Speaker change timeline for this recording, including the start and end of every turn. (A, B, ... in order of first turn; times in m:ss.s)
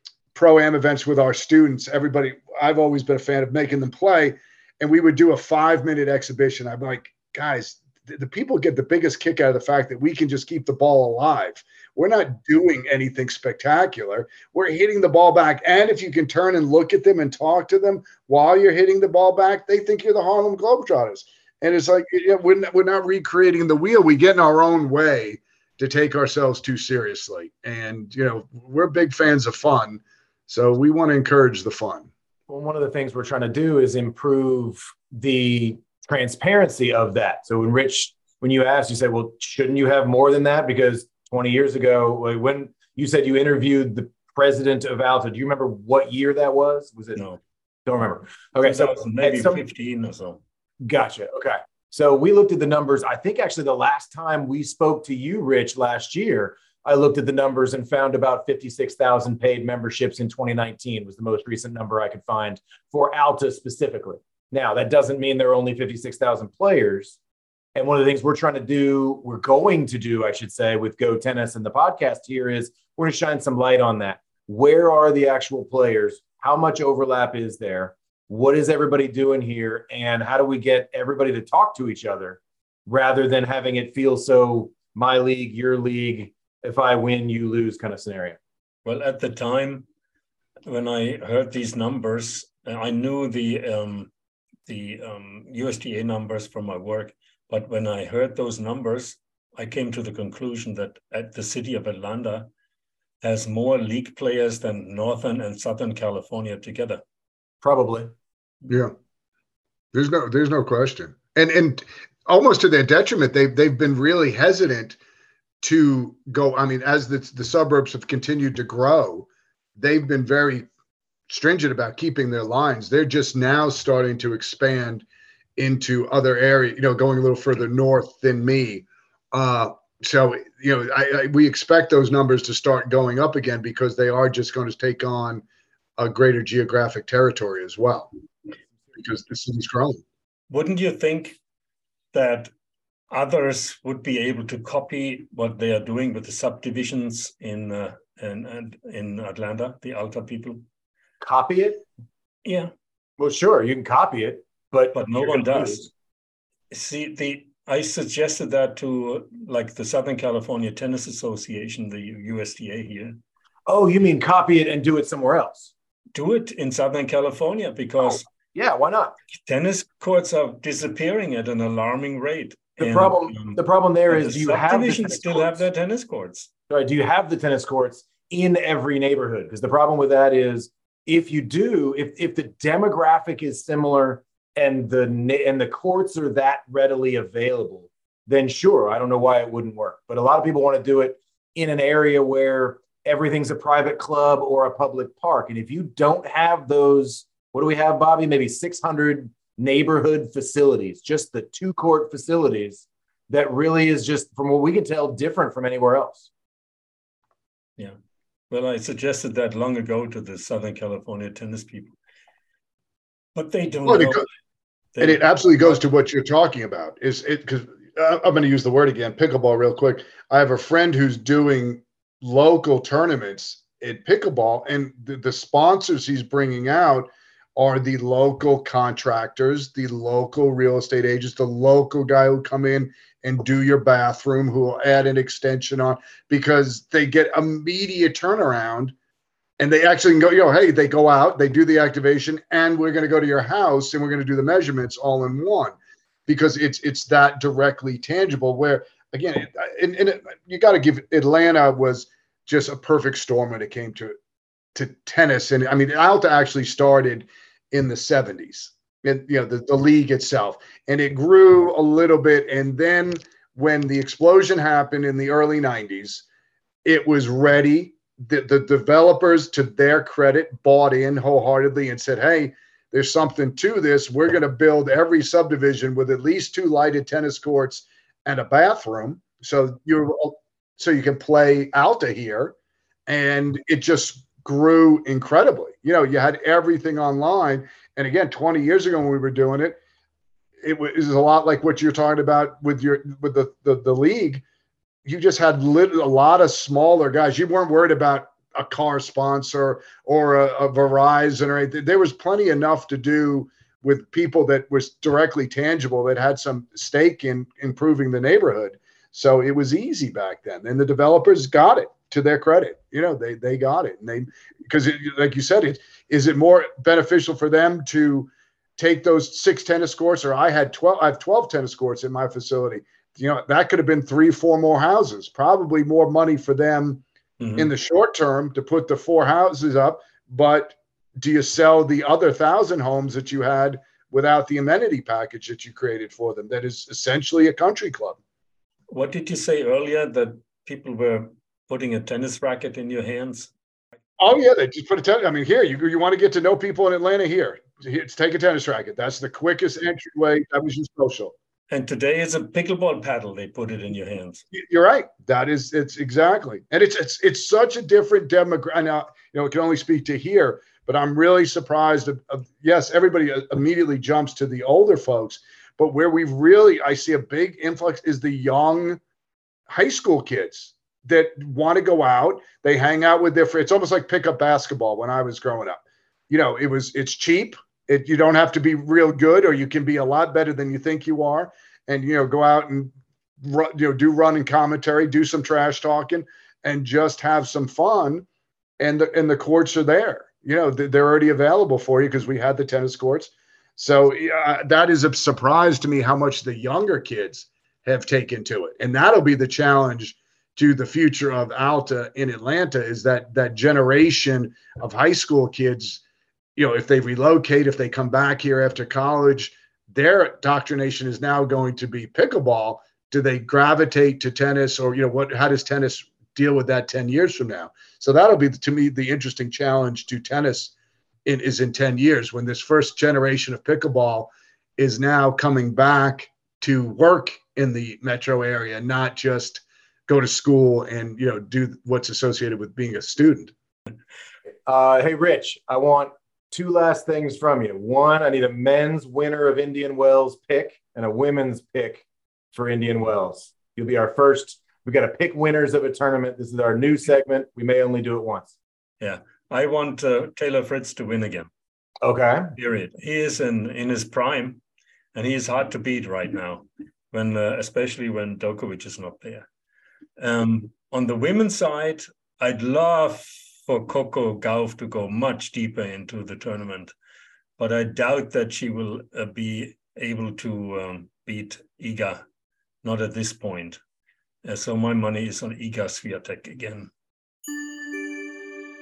0:00.4-0:32.1 A
0:32.5-0:47.2 B
0:47.9-0:49.6 B
0:48.6-0:50.4 C
0:50.8-1:07.2 B
1:07.8-1:28.4 B
1:28.8-1:29.9 C
1:30.7-1:34.1 C
1:34.7-1:42.5 C
1:43.2-1:47.0 C
1:47.6-1:48.1 B
1:48.7-1:48.9 A
1:49.9-1:55.0 A
1:55.6-1:59.3 A
1:59.8-2:00.7 A
2:01.3-2:05.0 A
2:05.6-2:15.4 A
2:16.0-2:18.1 A
2:19.0-2:20.0 A
2:20.5-2:21.4 C
2:22.1-2:22.5 C
2:23.1-2:30.6 C
2:31.2-2:31.8 B
2:32.4-2:32.7 C
2:33.2-2:35.9 B
2:34.9-2:35.9 C
2:36.7-2:43.2 C
2:43.7-2:45.7 B
2:46.2-2:48.2 C
2:48.5-2:49.2 B
2:49.4-2:56.5 C
2:52.8-2:55.6 B
2:56.7-3:26.3 B
3:28.5-3:32.0 C
3:33.4-3:34.3 C
3:33.9-3:34.2 A
3:35.0-3:35.8 C
3:35.0-3:58.9 A
3:59.6-4:05.8 A
4:06.3-4:14.2 A
4:14.8-4:26.2 A
4:26.8-4:42.6 A
4:43.1-4:49.8 A
4:50.6-4:54.4 A
4:55.0-5:27.0 A
5:27.4-5:27.7 C
5:27.6-5:38.2 A
5:38.9-5:43.5 C
5:44.2-5:51.3 A
5:51.7-5:54.5 C
5:54.5-6:09.0 A
6:09.7-6:28.3 A
6:28.8-6:46.0 A
6:46.6-7:00.7 A
7:01.2-7:13.5 A
7:14.7-7:28.5 B
7:29.0-7:31.5 C
7:32.0-7:32.5 B
7:32.6-7:34.6 C
7:35.1-7:39.5 C
7:40.2-7:46.9 C
7:47.6-7:52.2 C
7:52.8-7:53.8 C
7:54.4-7:56.9 C